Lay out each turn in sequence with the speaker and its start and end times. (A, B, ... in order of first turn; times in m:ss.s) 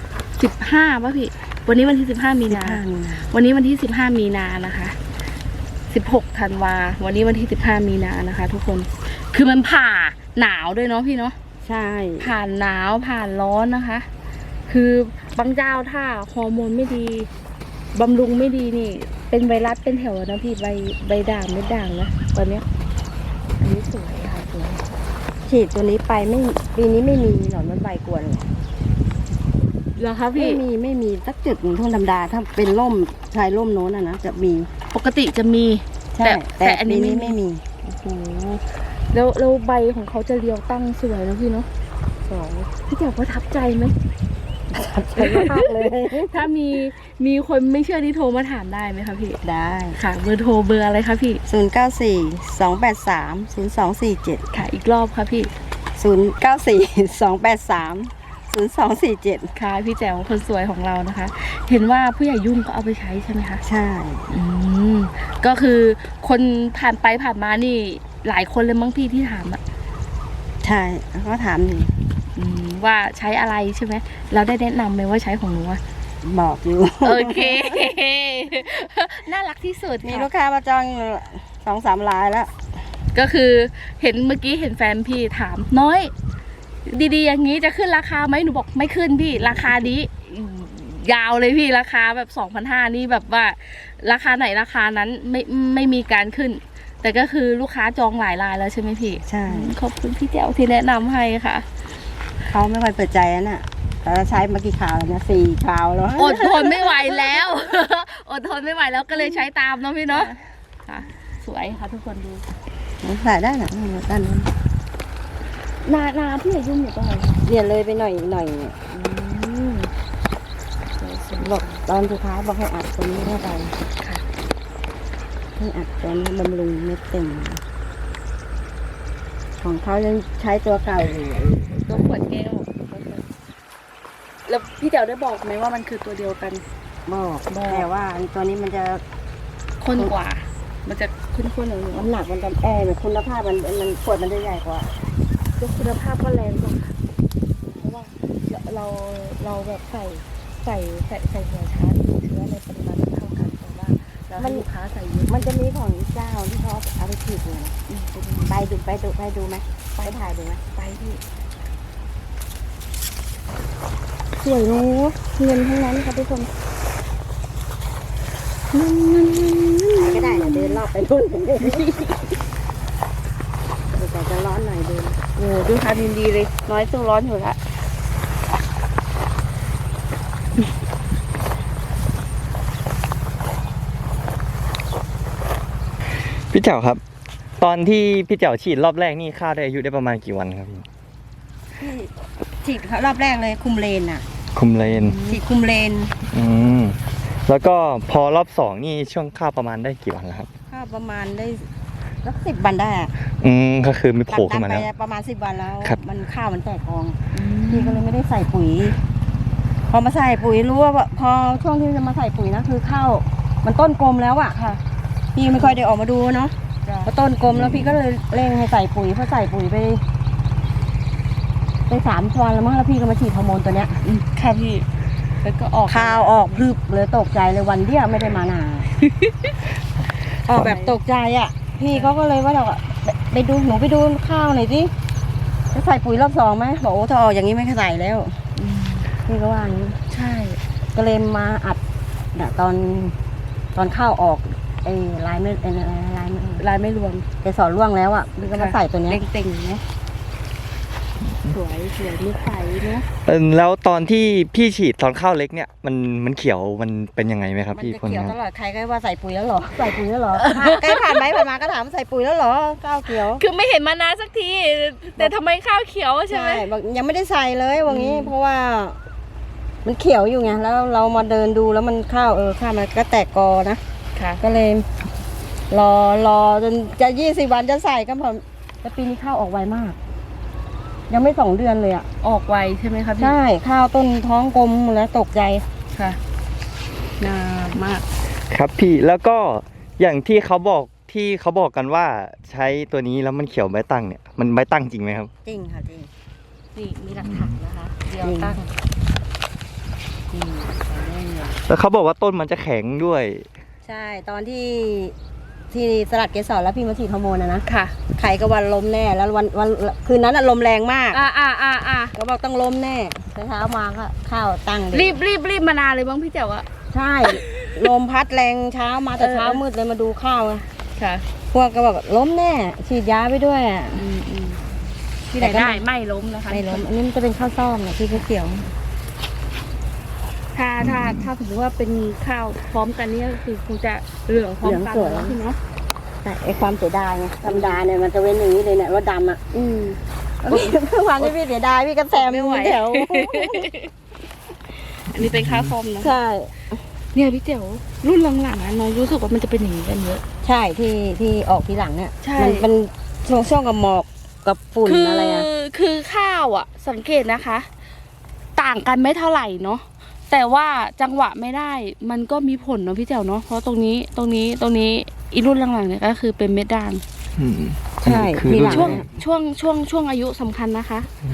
0:00.4-0:05.0 A
0:02.5-0:03.3 B
0:05.9-0:11.3 A
0:11.6-0:12.3 B
0:12.2-0:14.1 A
0:14.7-0:17.3 A
0:17.9-0:22.6 A
0:23.6-0:24.8 A
0:25.4-0:28.5 B
0:30.0-0:30.6 A
0:30.3-0:34.7 B
0:34.9-0:41.7 A
0:36.1-0:37.6 B
0:42.2-0:42.7 B
0:42.9-0:43.9 A
0:44.7-0:46.4 B
0:45.2-0:49.4 A
0:49.4-0:50.0 B
0:50.0-0:51.4 A
0:51.5-0:54.4 B
0:54.5-0:55.5 A
0:56.0-0:59.5 B
0:59.5-1:03.6 A
1:03.6-1:04.3 B
1:04.3-1:09.6 A
1:10.6-1:11.9 B
1:12.4-1:15.8 A
1:16.2-1:17.8 B
1:17.0-1:20.3 A
1:20.0-1:22.5 B
1:23.1-1:26.1 A
1:26.8-1:41.7 A
1:29.4-1:29.9 B
1:39.2-1:39.7 B
1:42.4-1:47.4 B
1:46.2-1:50.3 A
1:50.8-1:52.4 A
1:53.0-1:54.5 B
1:55.8-1:57.4 A
1:57.4-1:58.8 B
1:58.9-1:59.9 A
2:01.0-2:01.8 A
2:01.4-2:03.8 B
2:04.0-2:04.2 A
2:05.6-2:07.6 B
2:09.6-2:11.7 B
2:11.7-2:13.3 A
2:14.5-2:16.6 A
2:17.0-2:19.0 B
2:17.5-2:17.9 A
2:19.8-2:22.1 A
2:21.9-2:24.9 B
2:25.6-2:26.9 A
2:27.7-2:35.5 A
2:34.4-2:34.6 B
2:35.3-2:37.8 B
2:37.9-2:38.5 A
2:38.4-2:40.6 B
2:40.7-2:41.2 A
2:44.4-2:46.5 A
2:48.7-2:50.8 A
2:50.1-2:51.9 B
2:51.6-2:52.2 A
2:53.9-2:55.2 B
2:55.4-2:57.6 A
3:06.5-3:07.0 C
3:07.6-3:10.8 C
3:11.8-3:14.2 B
3:14.5-3:15.2 C
3:14.9-3:15.4 A
3:15.2-3:16.1 B
3:16.3-3:20.5 C
3:20.7-3:21.7 B
3:22.2-3:23.1 B
3:23.4-3:24.9 C
3:24.3-3:29.0 B
3:27.3-3:28.0 A
3:29.9-3:34.6 B
3:34.5-3:34.8 A
3:35.3-3:40.0 B
3:36.8-3:37.1 A
3:37.5-3:37.9 C
3:41.9-3:44.0 B
3:44.0-3:44.9 A
3:45.4-3:46.6 A
3:45.9-3:48.9 B
3:49.0-3:49.5 A
3:50.4-3:54.9 B
3:50.5-3:51.0 A
3:55.7-3:58.4 B
3:58.6-3:59.1 A
3:59.2-4:00.0 B
4:00.1-4:00.6 A
4:00.9-4:01.8 B
4:02.3-4:03.2 B
4:03.7-4:06.6 B
4:06.6-4:07.2 A
4:07.4-4:09.2 B
4:08.4-4:09.8 A
4:11.5-4:13.0 B
4:13.2-4:18.3 C
4:17.7-4:23.4 B
4:20.4-4:21.2 A
4:23.1-4:26.6 A
4:26.3-4:29.0 B
4:27.8-4:28.3 A
4:29.8-4:33.8 B
4:34.1-4:34.4 A
4:34.4-4:34.9 B
4:35.7-4:40.0 B
4:41.1-4:42.1 B
4:42.2-4:43.4 A
4:43.2-4:45.6 B
4:45.9-4:46.2 A
4:47.2-4:48.0 A
4:48.5-4:55.3 C
4:55.4-4:56.1 B
4:56.7-4:58.7 A
4:58.2-4:58.6 B
5:00.3-5:01.6 B
5:01.7-5:03.5 C
5:03.8-5:05.1 B
5:05.7-5:11.2 B
5:07.7-5:07.9 A
5:11.1-5:12.1 A
5:12.1-5:15.2 B
5:14.9-5:16.6 A
5:16.9-5:20.7 B
5:19.2-5:19.6 A
5:21.0-5:21.2 A
5:21.5-5:24.0 B
5:24.0-5:24.6 A
5:25.3-5:26.8 A
5:25.4-5:25.8 B
5:26.5-5:28.7 B
5:30.5-5:35.6 A
5:30.8-5:31.2 C
5:34.6-5:35.4 B
5:36.2-5:39.9 B
5:37.4-5:37.8 A
5:39.6-5:39.9 A
5:40.4-5:43.7 B
5:40.5-5:41.3 A
5:42.1-5:43.9 A
5:44.8-5:46.1 A
5:45.2-5:45.7 C
5:46.0-5:46.5 B
5:47.1-5:50.2 A
5:50.4-5:55.5 B
5:52.2-5:52.7 A
5:54.8-5:57.7 A
5:58.6-6:07.0 A
6:07.4-6:09.1 C
6:08.0-6:09.0 B
6:08.7-6:11.1 A